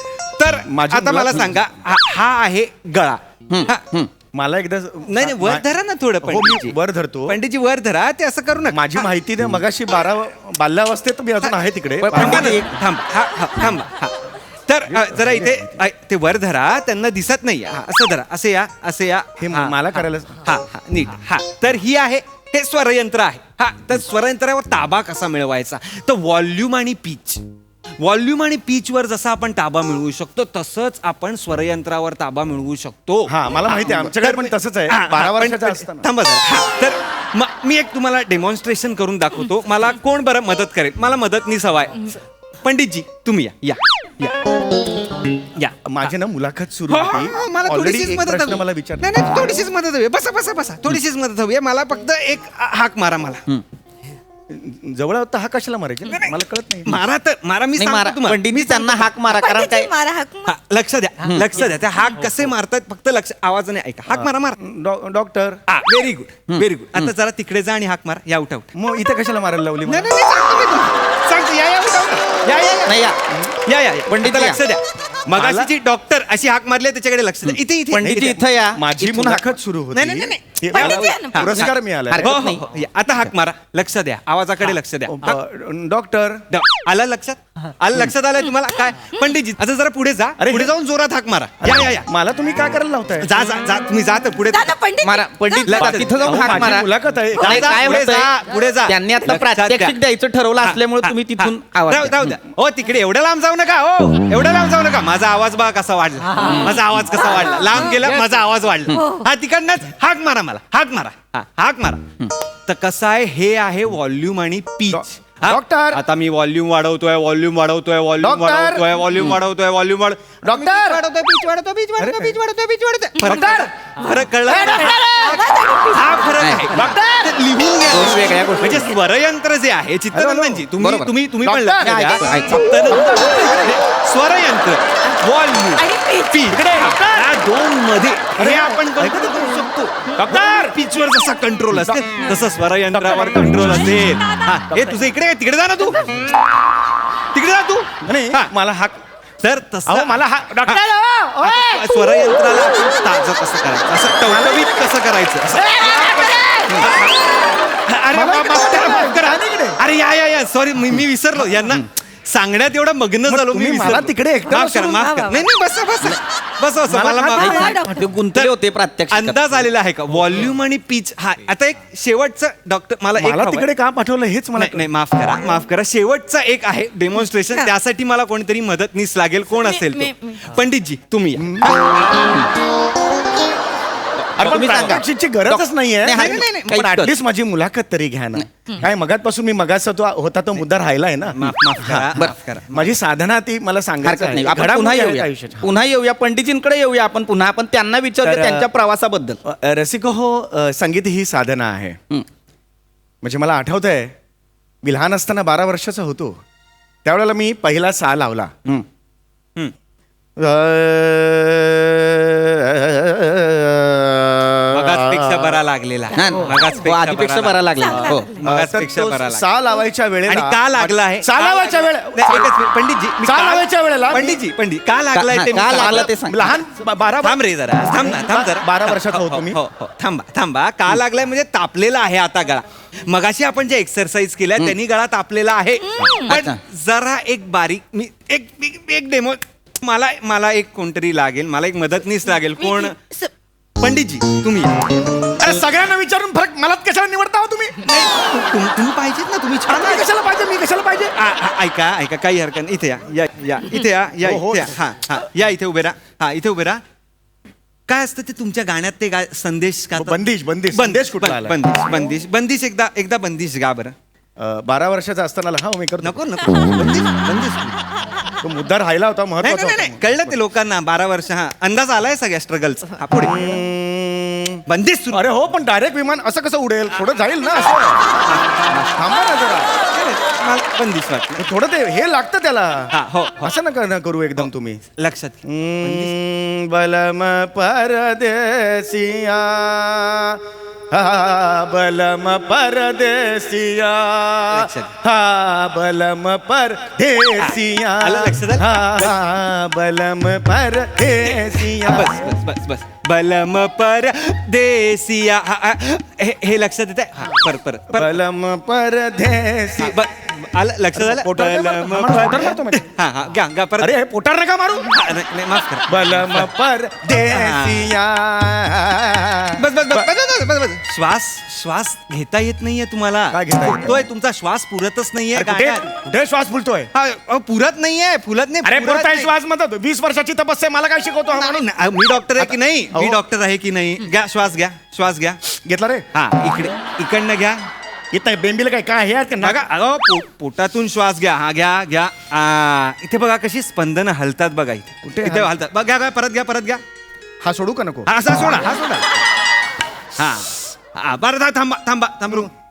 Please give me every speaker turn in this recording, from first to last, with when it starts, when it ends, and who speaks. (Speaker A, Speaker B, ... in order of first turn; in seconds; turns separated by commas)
Speaker A: 0.4-3.8, Speaker B: 0.7-1.6, Speaker C: 3.5-4.1, Speaker B: 4.3-5.7, Speaker A: 5.0-6.8, Speaker B: 6.2-7.4, Speaker A: 7.3-9.1, Speaker B: 8.7-12.6, Speaker C: 12.0-12.7, Speaker A: 12.2-19.8, Speaker B: 14.9-15.5, Speaker B: 19.4-20.4, Speaker A: 20.4-27.4, Speaker A: 28.0-44.4, Speaker B: 33.3-36.1, Speaker A: 45.5-46.1, Speaker B: 45.9-49.1, Speaker A: 46.9-53.4, Speaker B: 54.5-57.0, Speaker A: 56.1-56.3, Speaker A: 56.9-59.1, Speaker C: 57.8-59.9, Speaker D: 59.3-60.5, Speaker A: 60.5-64.5, Speaker B: 64.1-65.6, Speaker A: 65.7-68.7, Speaker C: 66.5-67.1, Speaker B: 68.7-70.2, Speaker A: 69.8-73.0, Speaker C: 72.9-73.2, Speaker A: 73.7-78.4, Speaker C: 74.1-74.6, Speaker B: 75.3-75.7, Speaker C: 77.9-79.5, Speaker B: 78.0-82.3, Speaker A: 79.9-85.4, Speaker D: 80.7-81.7, Speaker C: 82.1-82.6, Speaker B: 85.1-86.5, Speaker A: 86.5-92.1, Speaker B: 90.4-90.7, Speaker B: 91.6-93.3, Speaker A: 93.2-94.8, Speaker D: 94.5-95.9, Speaker C: 95.0-98.3, Speaker A: 95.7-100.0, Speaker B: 95.9-98.1, Speaker C: 98.9-102.4, Speaker A: 100.6-112.0, Speaker D: 107.3-107.9, Speaker D: 108.9-109.3, Speaker A: 112.7-146.2, Speaker B: 114.9-116.0, Speaker B: 118.2-118.9, Speaker B: 120.4-121.0, Speaker B: 122.0-122.4, Speaker D: 123.2-123.5, Speaker B: 123.2-123.7, Speaker B: 124.5-125.4, Speaker D: 124.5-126.3, Speaker C: 126.4-126.8, Speaker B: 126.7-127.3, Speaker C: 127.9-128.9, Speaker B: 128.2-128.6, Speaker B: 130.1-130.7, Speaker C: 130.8-131.1, Speaker B: 131.4-132.0, Speaker C: 131.8-132.6, Speaker B: 132.9-133.8, Speaker D: 135.8-136.5, Speaker B: 136.5-137.4, Speaker B: 138.4-140.8, Speaker B: 141.7-142.1, Speaker B: 142.9-143.9, Speaker A: 147.3-148.5, Speaker B: 148.0-149.0, Speaker A: 149.4-150.8, Speaker B: 149.9-152.1, Speaker A: 151.4-155.7, Speaker B: 154.2-154.8, Speaker B: 155.5-156.9, Speaker D: 155.8-156.8, Speaker A: 156.8-157.3, Speaker A: 157.9-167.7, Speaker B: 158.1-159.8, Speaker B: 163.3-165.1, Speaker D: 164.7-165.4, Speaker B: 166.9-167.8, Speaker D: 167.4-168.1, Speaker C: 167.6-169.7, Speaker A: 169.1-173.7, Speaker B: 173.2-174.9, Speaker A: 174.6-181.6, Speaker D: 179.8-180.4, Speaker B: 181.4-182.1, Speaker A: 184.3-185.0, Speaker B: 184.4-192.2, Speaker C: 184.4-187.1, Speaker A: 186.1-186.9, Speaker A: 191.3-193.0, Speaker B: 192.7-195.7, Speaker C: 194.0-199.4, Speaker B: 198.2-198.7, Speaker B: 199.4-202.0, Speaker B: 203.2-204.1, Speaker B: 204.8-206.4, Speaker B: 207.1-208.5, Speaker B: 210.4-215.6, Speaker A: 214.7-217.6, Speaker C: 216.1-218.3, Speaker D: 217.8-218.4, Speaker A: 218.3-219.5, Speaker B: 218.4-222.5, Speaker A: 220.2-226.1, Speaker B: 223.2-224.4, Speaker C: 225.1-226.6, Speaker B: 225.5-229.6, Speaker A: 227.2-243.0, Speaker D: 235.8-236.3, Speaker C: 236.1-236.6, Speaker D: 242.6-243.3, Speaker A: 243.8-244.9, Speaker B: 245.2-247.8, Speaker A: 247.8-250.1, Speaker B: 249.7-251.2, Speaker A: 251.2-256.8, Speaker B: 254.2-254.8, Speaker A: 257.9-263.9, Speaker B: 259.9-261.6, Speaker B: 264.4-266.2, Speaker A: 266.0-267.8, Speaker B: 268.4-270.4, Speaker A: 269.4-273.4, Speaker B: 273.2-278.1, Speaker A: 274.7-275.3, Speaker A: 278.3-279.0, Speaker B: 278.9-279.8, Speaker A: 279.9-281.4, Speaker B: 281.4-284.8, Speaker A: 282.9-283.6, Speaker A: 284.4-286.1, Speaker B: 285.4-290.4, Speaker B: 290.9-302.3, Speaker A: 294.5-294.9, Speaker A: 297.4-299.2, Speaker A: 301.2-308.2, Speaker B: 307.9-310.0, Speaker A: 309.8-313.9, Speaker B: 310.9-312.9, Speaker B: 313.8-315.0, Speaker A: 314.9-316.5, Speaker B: 315.9-320.1, Speaker A: 317.3-317.9, Speaker A: 319.6-325.9, Speaker B: 323.3-324.1, Speaker B: 325.4-326.9, Speaker A: 326.9-329.3, Speaker B: 328.6-331.7, Speaker A: 331.4-335.4, Speaker B: 332.4-333.2, Speaker B: 335.6-336.1, Speaker A: 336.1-337.7, Speaker B: 338.1-339.6, Speaker A: 339.4-346.8, Speaker B: 345.0-345.5, Speaker B: 347.4-348.1, Speaker A: 348.1-349.1, Speaker A: 350.2-352.5